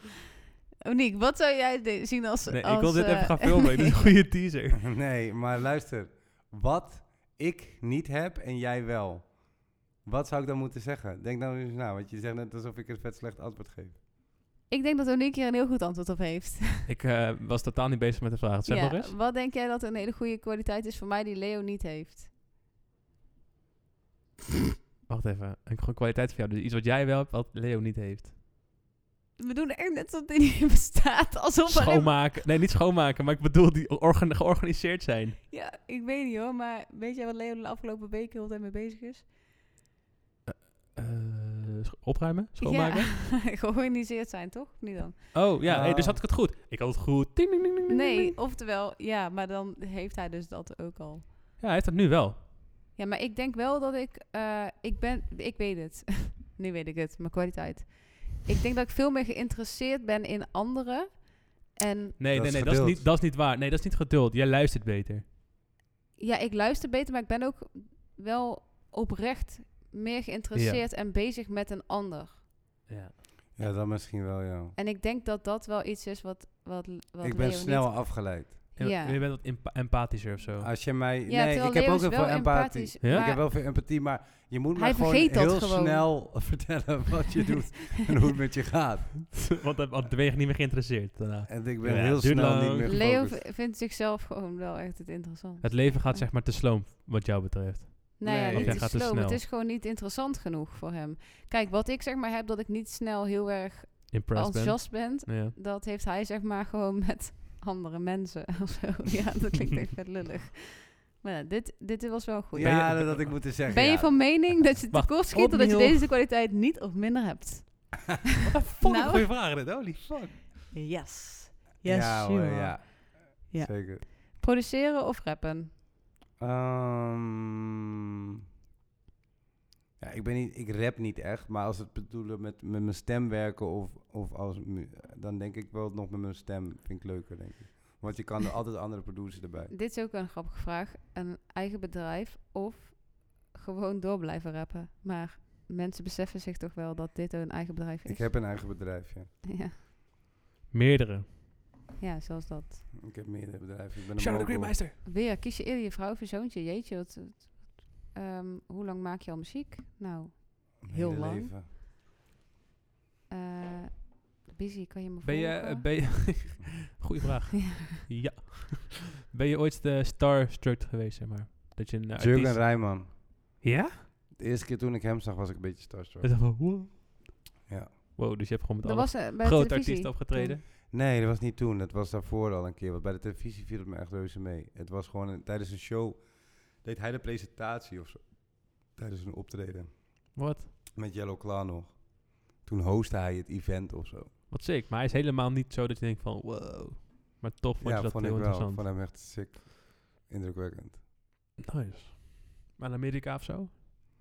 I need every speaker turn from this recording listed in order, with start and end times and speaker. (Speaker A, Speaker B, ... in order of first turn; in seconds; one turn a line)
Speaker A: 0.8-3.9
Speaker B: 2.5-4.8
Speaker C: 4.9-14.0
Speaker A: 14.7-16.9
Speaker B: 16.9-19.1
Speaker A: 18.7-22.3
Speaker B: 25.1-28.3
Speaker A: 29.4-32.3
Speaker B: 31.7-35.4
Speaker A: 35.5-39.2
Speaker B: 40.4-43.1
Speaker A: 42.6-45.5
Speaker B: 45.3-48.3
Speaker C: 45.6-46.2
Speaker A: 47.9-51.2
Speaker B: 51.6-52.4
Speaker A: 53.0-62.2
Speaker B: 62.2-65.2
Speaker C: 62.3-63.0
Speaker A: 66.2-72.4
Speaker B: 70.5-70.8
Speaker B: 72.9-73.1
Speaker C: 73.5-74.8
Speaker A: 74.8-79.2
Speaker C: 77.2-78.5
Speaker B: 78.8-80.7
Speaker C: 80.6-89.5
Speaker A: 81.3-83.5
Speaker B: 83.0-83.3
Speaker A: 84.8-86.1
Speaker B: 89.4-93.0
Speaker C: 91.5-93.4
Speaker A: 92.8-96.3
Speaker B: 95.6-99.4
Speaker A: 98.2-113.1
Speaker C: 98.2-98.9
Speaker B: 104.1-105.5
Speaker C: 112.5-114.2
Speaker B: 112.6-113.4
Speaker A: 113.7-118.2
Speaker B: 114.9-116.1
Speaker B: 118.4-120.5
Speaker A: 118.8-119.2
Speaker A: 120.7-125.7
Speaker C: 121.8-124.0
Speaker C: 126.4-127.5
Speaker C: 130.0-139.7
Speaker A: 139.7-148.3
Speaker C: 148.1-149.3
Speaker A: 149.5-149.7
Speaker B: 150.7-151.3
Speaker A: 152.0-152.9
Speaker C: 153.0-154.8
Speaker B: 154.2-155.0
Speaker A: 155.0-161.6
Speaker C: 160.8-161.7
Speaker A: 163.3-166.3
Speaker B: 165.2-173.1
Speaker A: 167.6-167.9
Speaker C: 172.2-173.1
Speaker B: 173.6-174.1
Speaker C: 174.3-176.5
Speaker B: 176.2-177.4
Speaker C: 177.7-177.9
Speaker B: 178.1-180.6
Speaker A: 178.8-180.6
Speaker C: 180.9-190.4
Speaker B: 190.3-190.7
Speaker C: 190.9-194.3
Speaker B: 194.5-198.9
Speaker C: 197.8-201.0
Speaker B: 201.6-203.7